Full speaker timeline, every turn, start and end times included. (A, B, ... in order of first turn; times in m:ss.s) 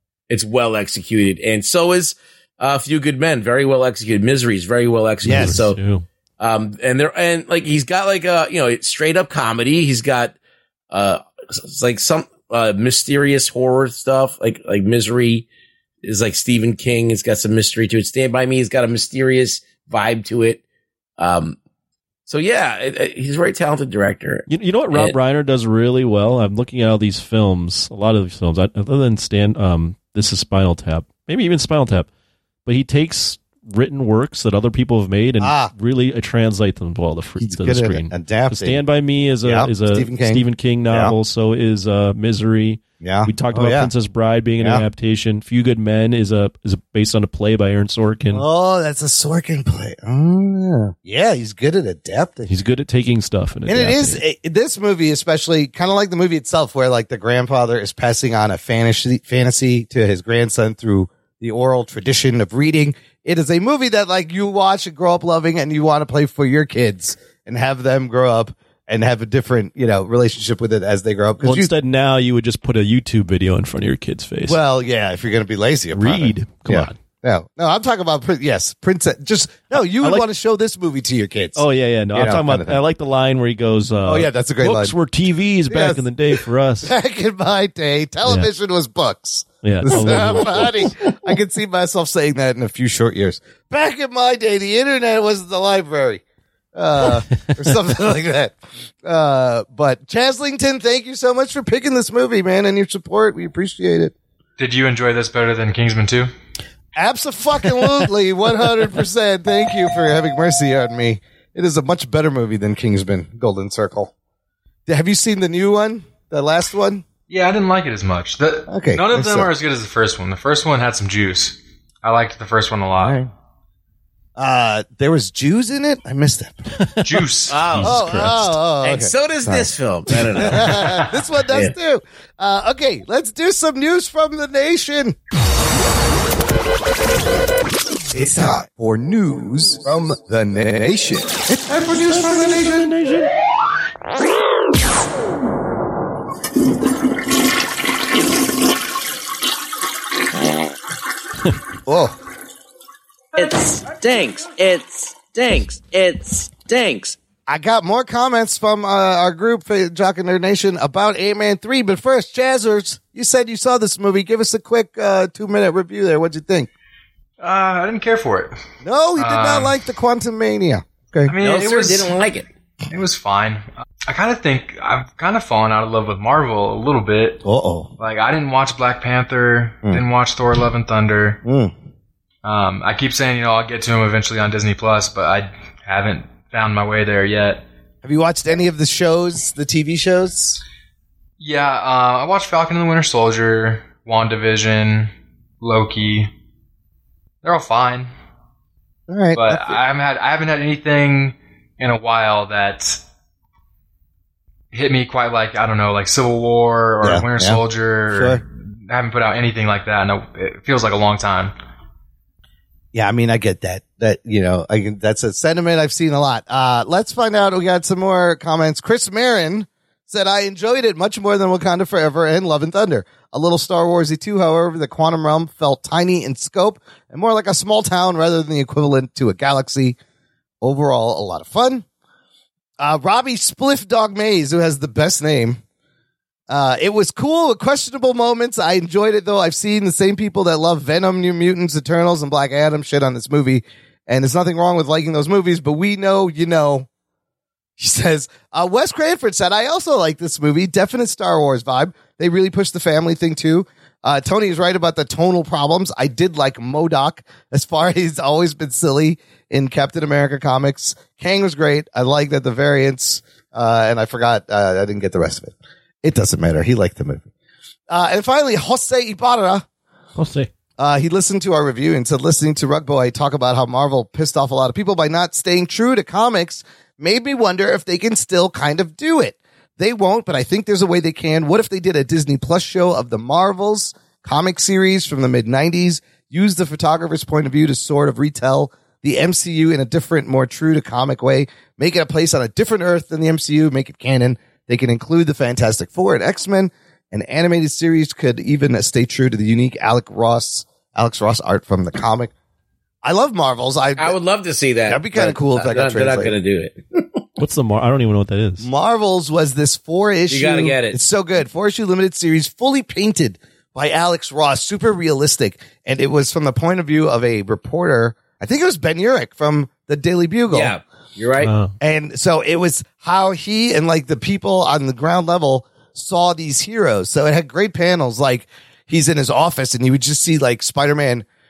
0:00.3-0:05.8 A
0:05.2-0:06.0 B
0:05.2-0:05.6 C
0:06.4-0:10.4 A
0:10.9-0:15.4 A
0:16.0-0:20.6 A
0:21.2-0:21.6 A
0:22.3-0:25.1 A
0:24.5-0:32.1 B
0:32.6-0:48.4 B
0:35.4-0:35.7 C
0:37.4-0:38.8 C
0:39.4-0:41.1 C
0:43.0-0:43.9 C
0:44.6-0:44.8 C
0:48.3-0:52.5 C
0:52.5-0:54.2 B
0:53.7-1:11.7 C
1:11.4-1:14.6 B
1:14.5-1:22.8 C
1:15.9-1:17.0 B
1:19.8-1:20.2 B
1:21.6-1:26.9 B
1:24.0-1:24.9 C
1:25.7-1:26.0 C
1:26.8-1:36.2 C
1:28.2-1:28.5 B
1:29.6-1:30.9 B
1:36.7-1:44.1 C
1:44.6-1:46.3 D
1:47.0-1:54.1 C
1:54.9-1:57.0 C
1:57.3-2:03.2 D
1:58.7-1:59.5 C
2:03.0-2:03.3 C
2:04.4-2:06.6 C
2:06.8-2:08.6 B
2:07.0-2:07.6 D
2:07.5-2:08.0 A
2:07.8-2:15.2 C
2:08.8-2:11.7 A
2:18.1-2:22.9 C
2:22.0-2:23.3 B
2:31.8-2:32.1 C
2:33.4-2:37.1 E
2:37.5-2:46.7 C
2:47.4-2:48.6 D
2:48.8-2:51.3 C
2:49.2-2:49.8 D
2:51.2-2:52.1 D
2:51.4-2:52.4 A
2:52.9-2:57.4 D
2:57.4-2:57.9 C
2:58.0-3:01.4 D
3:01.4-3:01.7 C
3:02.4-3:07.6 D
3:08.0-3:10.6 C
3:11.4-3:16.3 D
3:17.4-3:18.1 D
3:19.1-3:19.8 C
3:19.3-3:23.0 D
3:24.7-3:31.5 D
3:27.0-3:28.4 C
3:32.9-3:50.0 C
3:50.6-3:51.8 C
3:52.8-3:55.6 C
3:56.5-4:06.9 C
4:07.8-4:27.3 C
4:27.9-4:29.6 C
4:30.2-4:30.5 B
4:30.8-5:02.3 C
5:03.0-5:04.2 C
5:04.0-5:07.2 A
5:04.9-5:06.3 C
5:07.4-5:08.7 B
5:08.6-5:20.7 C
5:10.3-5:11.0 A
5:20.5-5:21.5 A
5:21.4-5:21.7 B
5:21.8-5:31.2 C